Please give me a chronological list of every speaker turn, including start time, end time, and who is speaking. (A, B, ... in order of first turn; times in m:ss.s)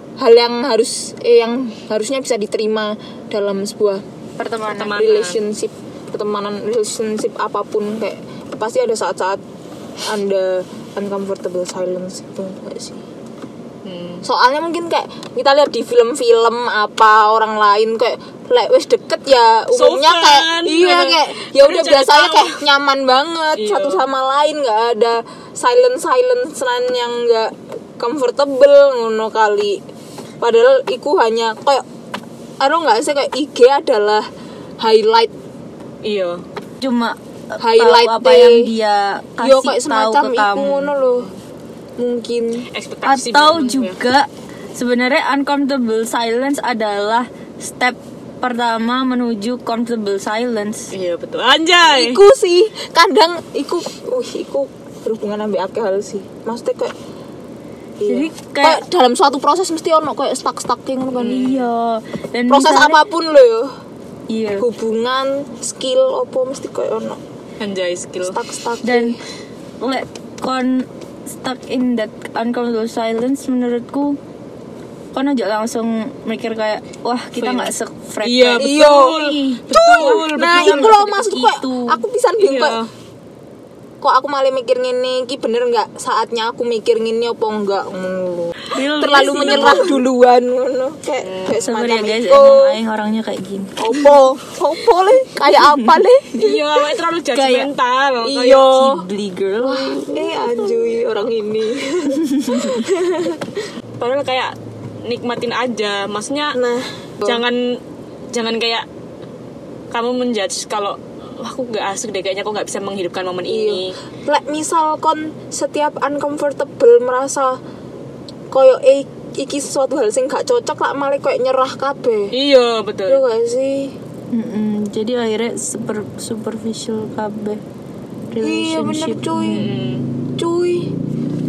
0:00.2-0:04.0 A
0:04.4-0:05.0 B
0:04.7-0:05.4 C
0:04.8-0:09.4 A
0:10.0-0:13.0 A
0:13.8-0:14.2 C
0:14.2-0:29.8 A
0:19.7-0:22.6 C
0:23.6-0:24.0 C
0:30.4-0:31.8 A
0:32.6-0:34.3 A
0:34.8-0:35.3 A
0:36.0-0:36.4 C
0:36.8-0:41.0 B
0:37.6-0:38.7 A
0:39.4-0:41.3 A
0:42.0-0:42.7 A
0:42.7-0:44.0 C
0:43.0-0:50.9 B
0:50.9-0:52.2 C
0:51.8-0:56.9 A
0:58.0-1:01.5 A
0:58.1-0:58.8 B
1:01.2-1:01.7 C
1:01.2-1:03.0 B
1:02.5-1:03.7 A
1:04.3-1:04.6 B
1:04.6-1:07.2 A
1:07.6-1:08.4 C
1:08.2-1:09.2 A
1:08.8-1:09.2 B
1:09.8-1:14.2 B
1:15.1-1:22.0 B
1:17.4-1:17.7 C
1:18.2-1:21.0 C
1:18.6-1:22.8 A
1:22.4-1:22.9 C
1:24.0-1:32.8 A
1:28.7-1:30.0 B
1:29.4-1:29.9 C
1:31.2-1:31.6 C
1:31.6-1:33.8 B
1:33.8-1:36.6 A
1:36.3-1:38.7 C
1:37.3-1:37.7 B
1:38.2-1:39.0 A
1:38.5-1:40.4 B
1:39.6-1:43.4 A
1:44.0-1:46.6 C
1:46.5-1:47.4 A
1:47.2-1:47.8 C
1:48.3-1:48.9 C
1:49.9-1:54.0 C
1:53.4-1:57.6 A
1:58.5-2:02.4 A
2:02.3-2:03.2 C
2:03.1-2:03.9 A
2:04.3-2:07.6 B
2:08.3-2:09.4 B
2:08.4-2:09.7 A
2:09.3-2:10.1 C
2:10.4-2:10.9 A